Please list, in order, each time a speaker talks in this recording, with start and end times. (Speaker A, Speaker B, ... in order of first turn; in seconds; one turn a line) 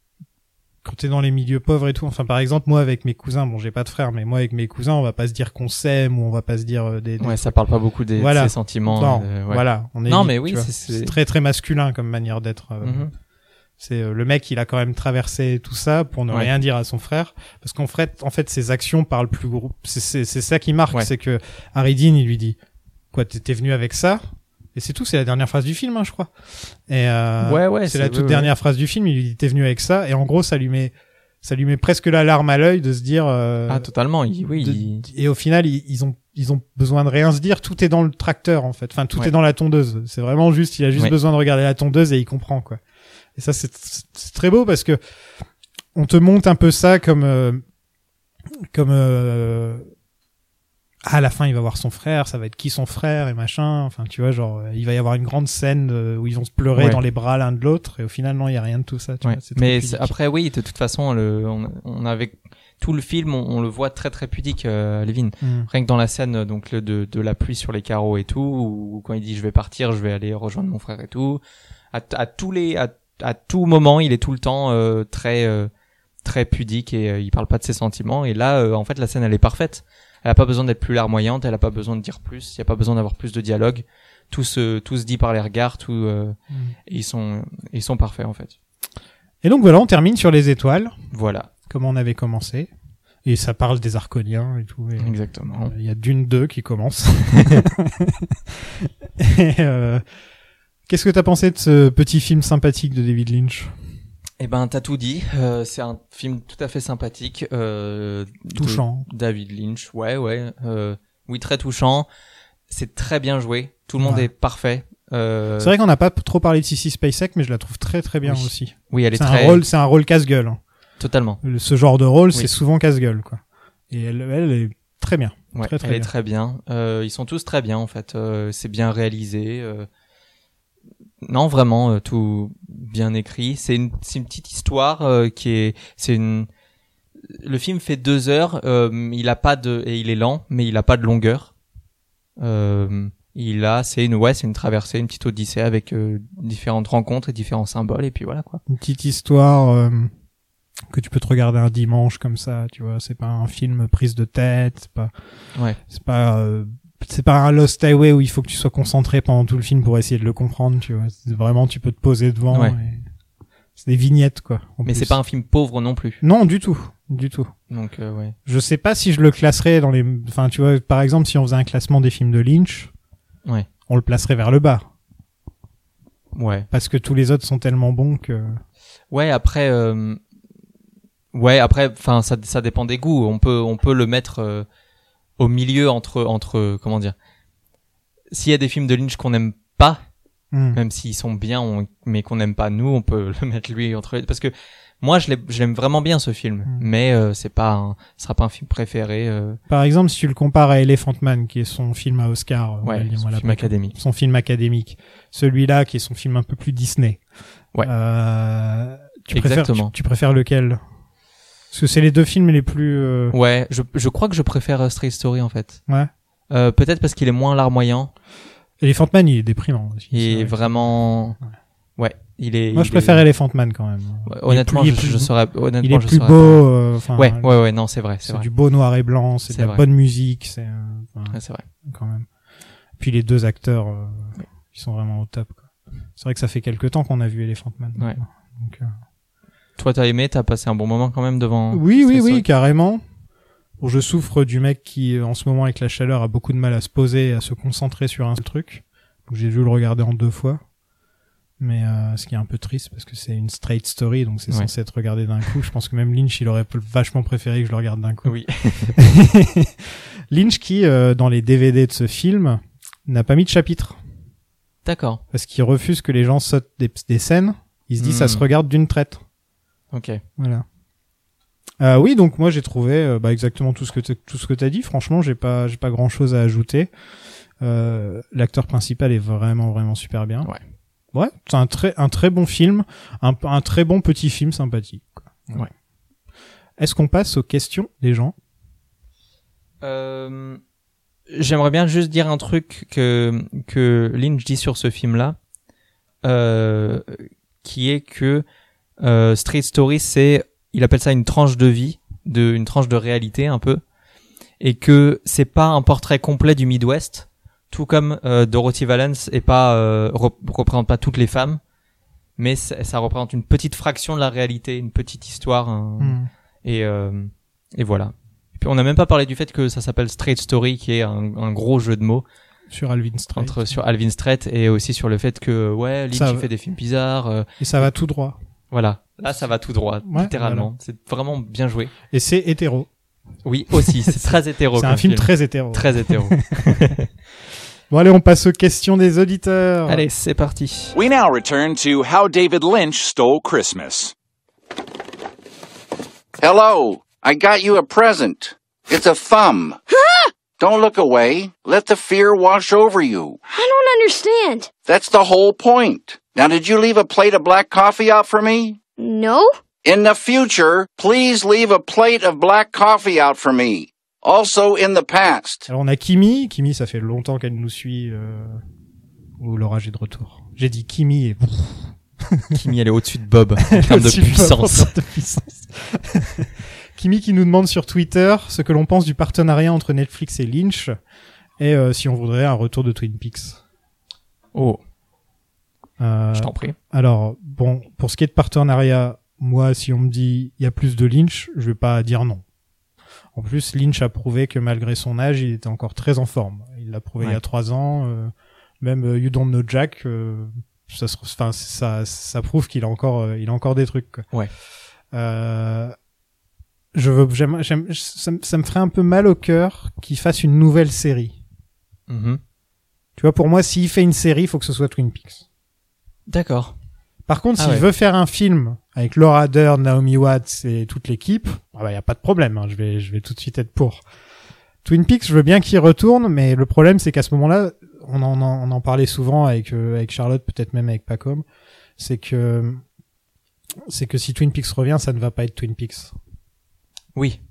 Speaker A: 0.8-7.5
Speaker B: 7.2-11.2
Speaker A: 8.2-13.1
Speaker B: 12.8-13.1
Speaker A: 13.8-22.6
Speaker A: 23.1-24.2
Speaker A: 24.7-26.3
Speaker A: 26.9-33.9
Speaker B: 27.4-28.5
Speaker B: 33.7-35.0
Speaker A: 34.6-42.8
Speaker A: 43.4-45.0
Speaker A: 45.9-47.6
Speaker A: 48.7-49.9
Speaker A: 51.0-60.1
Speaker B: 56.7-57.0
Speaker B: 59.2-71.4
Speaker A: 65.4-65.7
Speaker B: 71.9-75.7
Speaker B: 76.2-88.5
Speaker A: 89.4-90.9
Speaker B: 91.1-91.5
Speaker A: 91.7-92.7
Speaker A: 93.2-100.0
Speaker B: 95.0-95.7
Speaker B: 97.3-97.6
Speaker A: 100.9-103.7
Speaker B: 104.4-112.1
Speaker A: 108.5-109.1
Speaker B: 112.7-115.7
Speaker A: 114.0-114.3
Speaker A: 115.6-120.6
Speaker B: 118.2-119.6
Speaker B: 121.0-121.4
Speaker A: 121.4-126.1
Speaker B: 125.5-129.9
Speaker B: 131.2-136.5
Speaker B: 137.3-141.5
Speaker B: 142.4-148.6
Speaker A: 148.7-150.1
Speaker A: 150.9-155.1
Speaker A: 155.9-163.0
Speaker A: 163.8-165.1
Speaker B: 164.8-166.2
Speaker A: 166.2-167.5
Speaker B: 167.7-168.3
Speaker A: 168.4-172.9
Speaker A: 173.9-174.8
Speaker B: 176.3-176.7
Speaker A: 176.7-178.6
Speaker B: 179.1-180.2
Speaker B: 181.3-184.7
Speaker B: 185.4-187.1
Speaker B: 188.3-190.0
Speaker A: 190.5-190.8
Speaker B: 190.7-199.6
Speaker A: 199.7-207.2
Speaker B: 202.8-203.9
Speaker A: 207.8-210.8
Speaker B: 209.3-209.9
Speaker A: 211.7-213.3
Speaker B: 213.3-215.8
Speaker B: 216.5-218.1
Speaker A: 218.8-220.9
Speaker B: 220.1-221.4
Speaker B: 222.0-223.2
Speaker A: 222.7-227.6
Speaker B: 224.3-226.6
Speaker B: 227.2-228.5
Speaker A: 228.2-232.3
Speaker B: 229.5-229.8
Speaker B: 231.3-231.6
Speaker A: 233.0-235.6
Speaker A: 236.2-238.9
Speaker B: 239.8-242.4
Speaker A: 241.7-243.0
Speaker A: 243.8-250.6
Speaker A: 251.6-259.7
Speaker B: 258.2-259.0
Speaker A: 260.3-264.0
Speaker B: 264.8-265.2
Speaker A: 265.3-269.2
Speaker B: 268.0-268.4
Speaker B: 269.9-270.2
Speaker A: 270.4-270.6
Speaker A: 271.8-276.9
Speaker A: 277.6-280.5
Speaker A: 281.1-285.6
Speaker A: 286.8-288.3
Speaker B: 289.8-290.6
Speaker B: 291.3-295.4
Speaker B: 296.2-298.4
Speaker B: 299.0-303.8
Speaker B: 304.6-311.6
Speaker B: 312.4-322.2
Speaker A: 316.0-316.3
Speaker A: 322.7-323.7
Speaker B: 323.4-327.9
Speaker A: 326.1-326.4
Speaker A: 327.6-328.4
Speaker B: 328.7-331.9
Speaker A: 330.0-330.7
Speaker A: 332.1-332.9
Speaker B: 333.4-337.1
Speaker A: 333.7-336.8
Speaker A: 337.9-340.1
Speaker B: 339.9-340.9
Speaker C: 340.9-344.1
Speaker D: 346.4-349.8
Speaker E: 349.9-350.3
Speaker D: 350.6-353.4
Speaker E: 353.5-354.7
Speaker D: 354.9-358.8
Speaker E: 359.0-359.5
Speaker D: 359.8-365.6
Speaker A: 365.7-368.6
Speaker A: 369.4-372.6
Speaker B: 372.5-374.9
Speaker A: 373.6-381.0
Speaker A: 381.6-383.6
Speaker B: 384.5-384.8
Speaker A: 386.0-392.4
Speaker B: 386.3-386.8
Speaker A: 393.3-404.2
Speaker A: 405.1-405.9
Speaker A: 406.9-411.4
Speaker B: 412.1-412.4
Speaker A: 413.2-415.4
Speaker B: 416.3-416.7
Speaker A: 417.3-424.0
Speaker B: 417.6-417.9
Speaker A: 424.8-431.4
Speaker A: 432.0-432.8
Speaker A: 433.9-436.1